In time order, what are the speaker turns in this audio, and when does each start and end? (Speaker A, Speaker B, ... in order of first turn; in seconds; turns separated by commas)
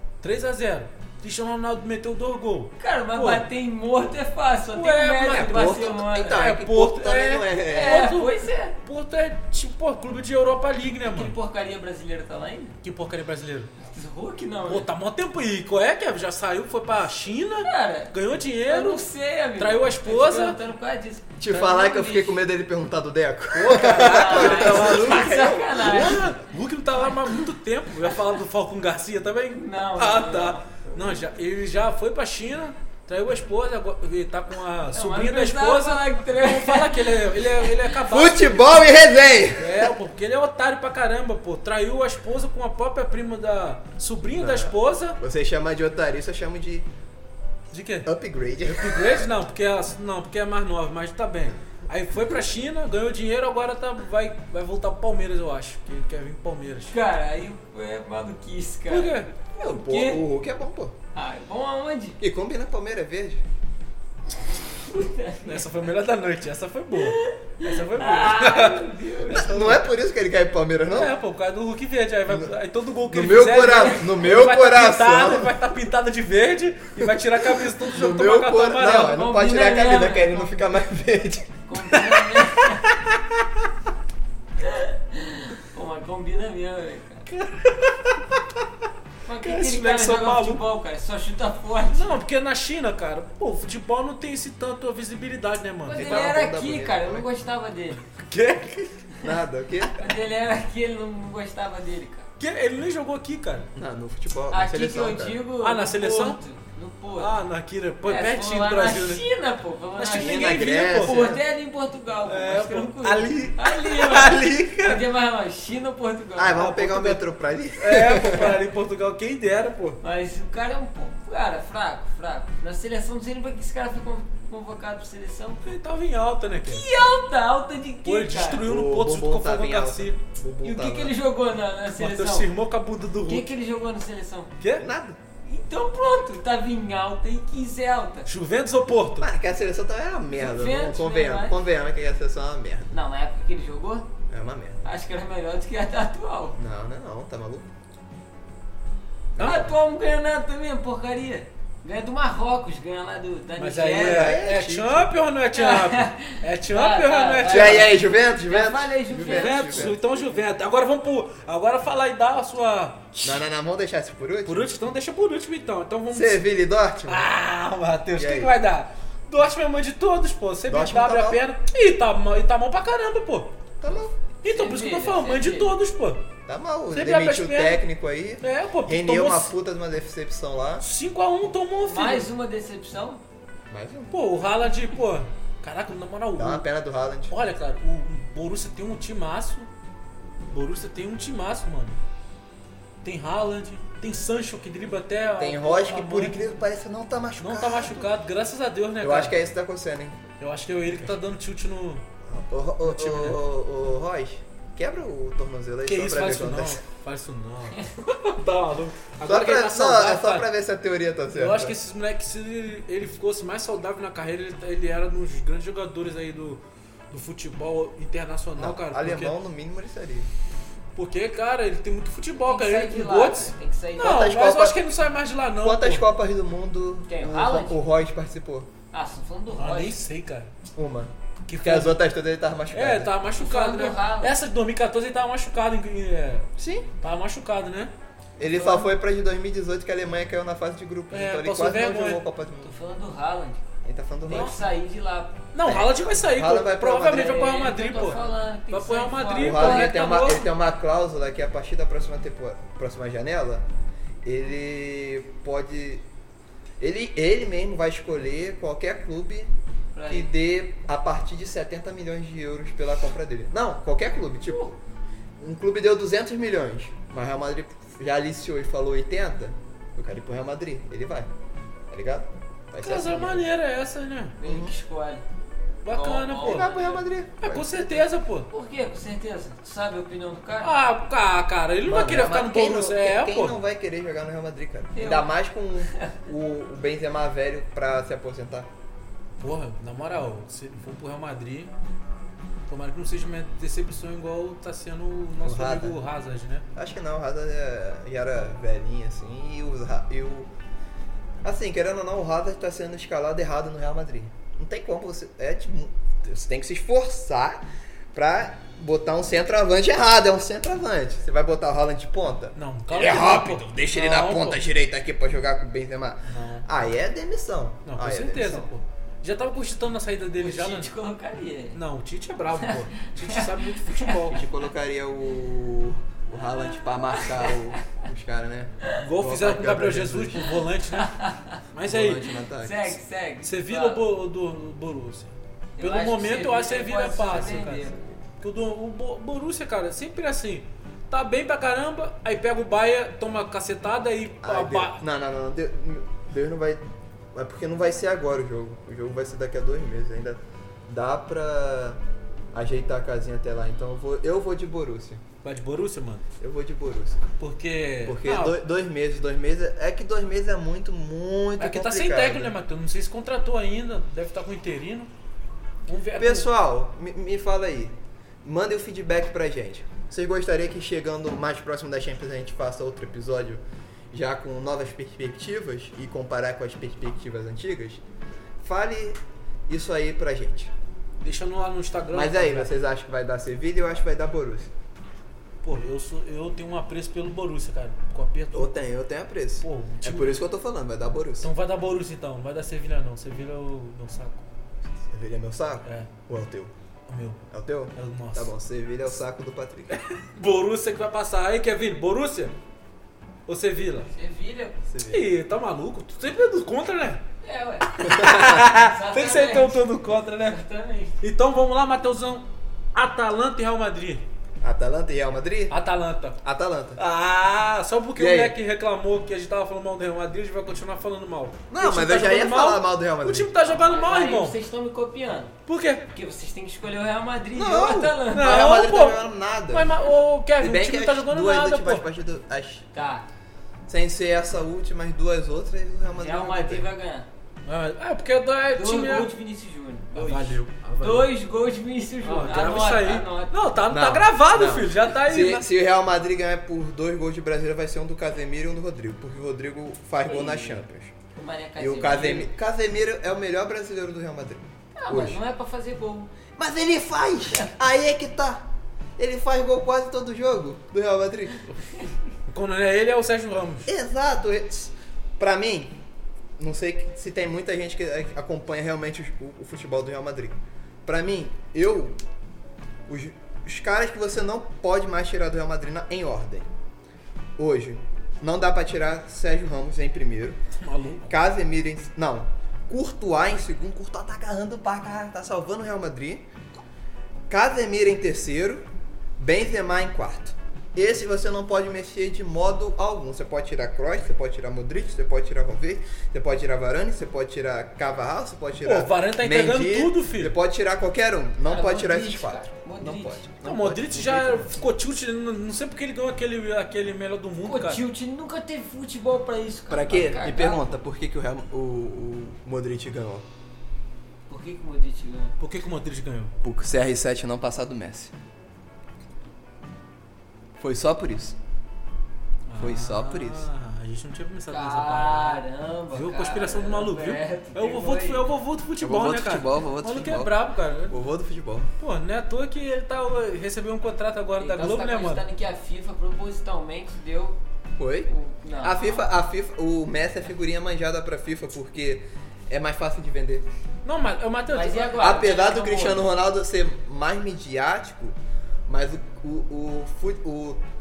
Speaker A: 0.2-3.5, Speaker B: 2.8-6.4, Speaker A: 4.7-11.3, Speaker C: 5.3-8.1, Speaker B: 7.7-8.8, Speaker B: 11.0-12.8, Speaker A: 12.8-13.7, Speaker B: 13.8-14.9, Speaker A: 14.7-20.6, Speaker B: 17.6-22.5, Speaker C: 21.4-26.2, Speaker A: 23.6-38.9, Speaker B: 23.6-26.3, Speaker B: 29.5-31.1, Speaker B: 34.9-37.8, Speaker C: 38.1-39.9, Speaker A: 39.6-45.2, Speaker C: 44.3-46.9, Speaker A: 47.7-48.1, Speaker C: 48.1-49.3, Speaker A: 48.6-57.0, Speaker B: 56.9-60.2, Speaker A: 58.9-59.3, Speaker C: 59.6-61.0, Speaker B: 61.1-62.2, Speaker C: 62.2-63.4, Speaker B: 64.9-65.7, Speaker A: 65.5-69.9, Speaker B: 67.0-69.5, Speaker C: 69.3-71.1, Speaker A: 70.9-79.2, Speaker C: 72.3-72.5, Speaker C: 73.1-75.5, Speaker C: 77.0-83.7, Speaker B: 78.9-80.6, Speaker B: 81.7-82.9, Speaker B: 84.6-87.3, Speaker A: 87.3-88.2, Speaker B: 89.2-92.2, Speaker A: 89.4-90.6, Speaker A: 91.9-96.3, Speaker B: 95.9-98.0, Speaker C: 95.9-97.2, Speaker A: 98.1-99.0, Speaker C: 99.2-100.2, Speaker B: 100.0-102.3, Speaker A: 102.4-103.7, Speaker C: 103.8-105.4, Speaker B: 104.5-107.4, Speaker A: 105.6-106.4, Speaker A: 107.2-109.2, Speaker B: 108.0-116.7, Speaker A: 110.0-111.3, Speaker C: 110.1-111.4, Speaker A: 112.3-115.0, Speaker C: 116.4-118.6, Speaker A: 116.5-117.2, Speaker A: 117.8-120.0, Speaker B: 120.0-125.8, Speaker A: 125.6-126.9, Speaker B: 126.7-128.6, Speaker A: 128.0-130.2, Speaker C: 128.6-131.2, Speaker B: 130.6-132.5, Speaker A: 131.9-133.5, Speaker B: 133.2-134.5, Speaker A: 134.6-134.9, Speaker C: 134.8-135.2, Speaker B: 135.4-138.3, Speaker A: 138.3-139.3, Speaker C: 139.2-142.9, Speaker B: 140.3-141.6, Speaker B: 142.9-144.1, Speaker C: 144.3-144.8, Speaker B: 144.8-146.6, Speaker C: 146.6-147.7, Speaker C: 149.3-149.7, Speaker A: 149.4-149.7, Speaker B: 149.4-154.4, Speaker A: 153.6-157.9, Speaker C: 154.0-155.1, Speaker B: 155.5-159.9, Speaker C: 157.5-160.0, Speaker A: 159.3-163.3, Speaker C: 163.2-164.7, Speaker A: 164.4-166.4, Speaker C: 166.1-167.3, Speaker A: 167.1-173.6, Speaker C: 168.2-168.5, Speaker C: 170.7-171.4, Speaker C: 173.8-174.2, Speaker A: 174.4-176.2, Speaker B: 174.5-175.7, Speaker C: 176.5-180.9, Speaker A: 176.9-177.8, Speaker A: 178.4-179.5, Speaker A: 180.8-182.3, Speaker B: 181.9-183.2, Speaker C: 183.7-184.1, Speaker A: 184.1-186.7, Speaker C: 186.4-187.3, Speaker A: 187.3-189.7, Speaker A: 190.5-192.0, Speaker A: 193.0-196.4, Speaker C: 195.4-198.1, Speaker A: 197.4-199.4, Speaker C: 199.0-200.2, Speaker A: 200.4-202.0, Speaker C: 202.2-206.8, Speaker A: 202.8-203.4, Speaker A: 205.9-210.5, Speaker C: 209.2-211.8, Speaker A: 211.3-219.4, Speaker C: 218.6-220.3, Speaker A: 220.9-226.1, Speaker B: 222.3-224.3, Speaker C: 224.0-224.8, Speaker C: 225.6-228.7, Speaker B: 227.1-227.8, Speaker B: 228.9-230.0, Speaker A: 229.6-230.5, Speaker C: 230.8-233.1, Speaker A: 231.5-232.0, Speaker A: 232.7-236.5, Speaker B: 233.3-234.4, Speaker C: 236.6-236.9, Speaker A: 237.0-237.9, Speaker C: 238.4-242.7, Speaker B: 238.4-238.9, Speaker A: 241.1-242.2, Speaker B: 242.6-243.7, Speaker C: 243.8-244.6, Speaker A: 244.3-244.6, Speaker B: 244.3-245.4, Speaker A: 245.5-250.5, Speaker C: 245.6-247.4, Speaker B: 247.0-249.9, Speaker C: 249.4-253.7, Speaker C: 254.2-256.1, Speaker C: 256.8-259.5, Speaker B: 259.9-260.3, Speaker C: 260.1-264.8, Speaker C: 265.4-271.3, Speaker C: 271.9-273.5, Speaker A: 272.8-274.4, Speaker B: 274.4-275.2, Speaker C: 274.4-274.7, Speaker A: 275.9-276.8, Speaker B: 275.9-277.0, Speaker C: 276.4-278.1, Speaker A: 277.4-278.5, Speaker B: 278.5-280.7, Speaker A: 280.6-283.6, Speaker C: 281.9-288.7, Speaker B: 284.9-285.3, Speaker A: 289.4-291.7, Speaker A: 292.7-296.7, Speaker C: 295.4-296.0, Speaker C: 296.8-300.5, Speaker C: 301.4-307.6, Speaker C: 308.1-318.7, Speaker A: 312.6-314.6, Speaker A: 316.2-316.7, Speaker A: 317.9-320.9, Speaker B: 320.4-321.8, Speaker A: 321.7-324.4, Speaker B: 322.6-324.2, Speaker C: 324.3-330.4, Speaker B: 326.8-327.8, Speaker A: 329.0-331.1, Speaker B: 330.9-331.6, Speaker A: 331.7-332.3, Speaker C: 331.8-333.0, Speaker B: 332.5-334.0, Speaker A: 333.4-345.0, Speaker B: 335.8-338.2, Speaker C: 344.4-346.8, Speaker C: 347.3-352.0, Speaker C: 352.5-355.2, Speaker A: 355.4-356.2, Speaker C: 356.4-357.2, Speaker A: 357.4-358.6, Speaker C: 358.0-362.6, Speaker A: 361.6-365.1, Speaker A: 365.9-366.5, Speaker C: 366.2-378.0, Speaker C: 378.6-380.7, Speaker A: 381.2-382.8, Speaker C: 382.1-384.7, Speaker A: 385.6-388.7, Speaker C: 388.5-391.5, Speaker A: 389.6-390.4, Speaker A: 391.4-394.4, Speaker C: 395.1-396.7, Speaker A: 395.8-396.1, Speaker A: 397.1-397.4, Speaker C: 397.5-400.0, Speaker A: 397.9-398.5, Speaker A: 399.9-402.5, Speaker A: 403.5-404.1, Speaker B: 404.1-404.8, Speaker C: 404.9-405.3, Speaker A: 405.1-407.2, Speaker B: 407.4-411.2, Speaker A: 408.0-410.6, Speaker C: 408.0-408.6, Speaker A: 411.2-414.2, Speaker C: 414.6-415.7, Speaker A: 415.7-416.4, Speaker C: 416.4-417.0, Speaker A: 417.0-424.6, Speaker C: 418.2-418.6, Speaker C: 421.7-423.8, Speaker B: 423.7-425.5, Speaker A: 425.7-426.1, Speaker B: 426.1-428.8, Speaker C: 427.6-430.0, Speaker A: 428.3-432.1, Speaker C: 430.6-432.9, Speaker B: 432.9-433.2, Speaker C: 433.9-436.9, Speaker B: 436.2-437.3, Speaker A: 437.7-439.3, Speaker B: 438.7-443.7, Speaker A: 440.1-441.3, Speaker A: 442.2-445.7, Speaker C: 443.9-451.1, Speaker B: 450.3-450.8, Speaker B: 451.4-452.5, Speaker C: 451.8-455.4, Speaker B: 455.0-456.3, Speaker C: 456.6-458.6, Speaker C: 459.2-461.6, Speaker A: 462.5-463.9, Speaker C: 463.9-466.0, Speaker C: 466.6-472.2, Speaker C: 473.1-476.7, Speaker C: 477.6-480.6, Speaker A: 480.8-481.3, Speaker C: 481.3-486.4, Speaker C: 487.5-488.8, Speaker C: 489.4-504.7, Speaker A: 498.8-500.5, Speaker B: 501.7-503.4, Speaker A: 503.6-508.0, Speaker B: 507.6-510.8, Speaker C: 509.9-513.5, Speaker B: 514.5-515.5, Speaker A: 515.6-516.5, Speaker C: 516.6-518.3, Speaker C: 520.8-521.6, Speaker A: 522.7-531.2, Speaker C: 522.8-523.7, Speaker B: 524.7-528.5, Speaker C: 529.0-531.9, Speaker A: 532.0-535.4, Speaker B: 534.6-537.6, Speaker C: 538.0-538.3, Speaker B: 538.3-539.3, Speaker C: 538.8-543.7, Speaker A: 544.0-545.5, Speaker B: 544.7-546.3, Speaker C: 545.2-548.4, Speaker C: 548.9-550.8